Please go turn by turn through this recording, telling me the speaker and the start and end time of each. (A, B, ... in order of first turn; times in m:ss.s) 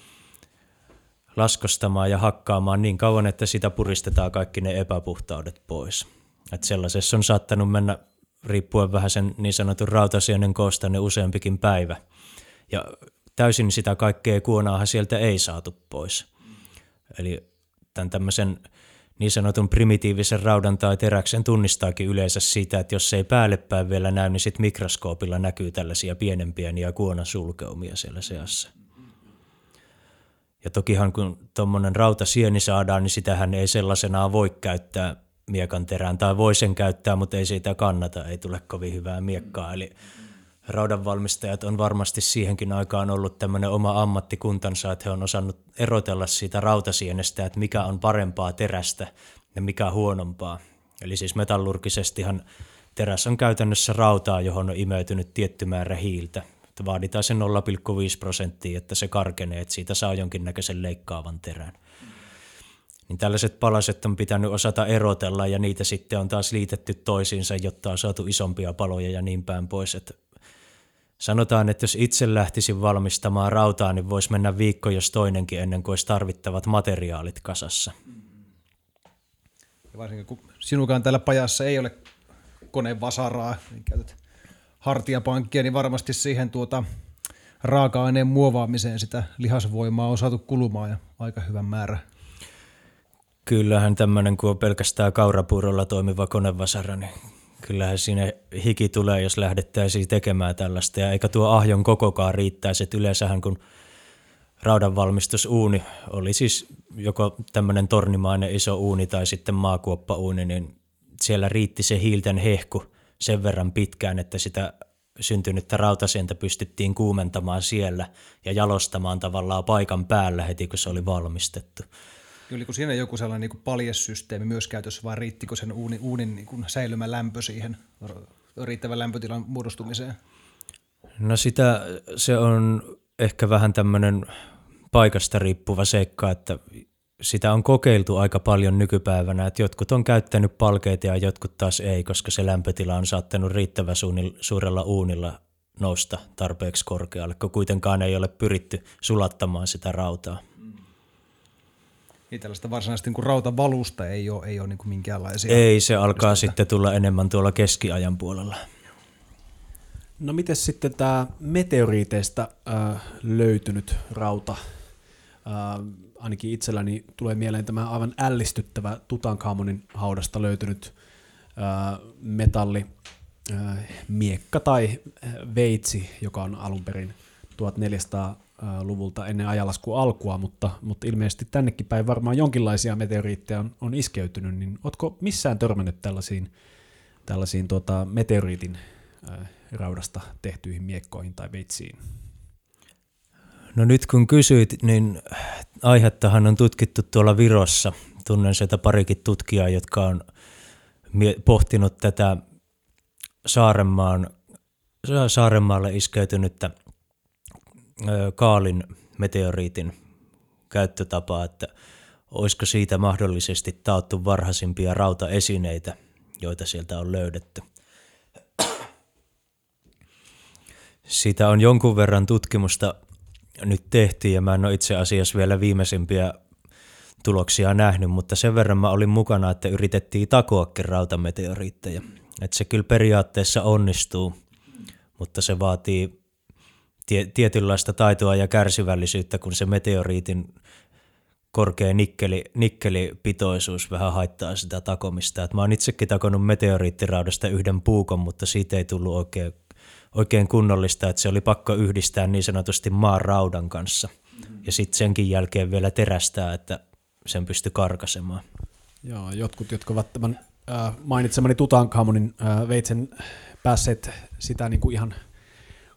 0:01.4-0:12.0 A
0:12.7-0:16.3 A
0:17.1-0:18.6 A
0:19.2-0:28.7 A
0:30.6-0:39.9 A
0:40.7-0:52.4 A
0:52.9-1:01.8 A
1:03.1-1:10.2 A
1:11.2-1:17.9 A
1:19.9-1:22.0 B
1:22.7-1:24.2 B
1:24.8-1:26.8 B
1:27.6-1:32.0 B
1:33.4-1:43.6 A
1:44.6-2:01.9 A
2:02.5-2:10.2 B
2:11.2-2:14.3 A
2:14.9-2:16.6 A
2:17.2-2:30.4 A
2:32.3-2:35.6 B
2:35.5-2:38.6 A
2:36.2-2:36.5 B
2:40.2-2:44.6 C
2:45.4-2:50.9 C
2:51.6-2:52.9 C
2:53.4-3:06.5 C
3:07.2-3:12.0 C
3:13.7-3:20.2 A
3:21.1-3:22.4 A
3:23.4-3:24.3 A
3:25.0-3:26.7 A
3:28.0-3:29.9 A
3:30.7-3:31.7 A
3:32.3-3:37.6 A
3:41.1-3:42.9 A
3:43.6-3:46.3 A
3:47.2-3:54.3 A
3:55.2-3:56.1 A
3:57.1-4:00.5 A
4:01.5-4:09.5 A
4:10.1-4:14.1 A
4:14.6-4:18.4 A
4:19.0-4:25.1 C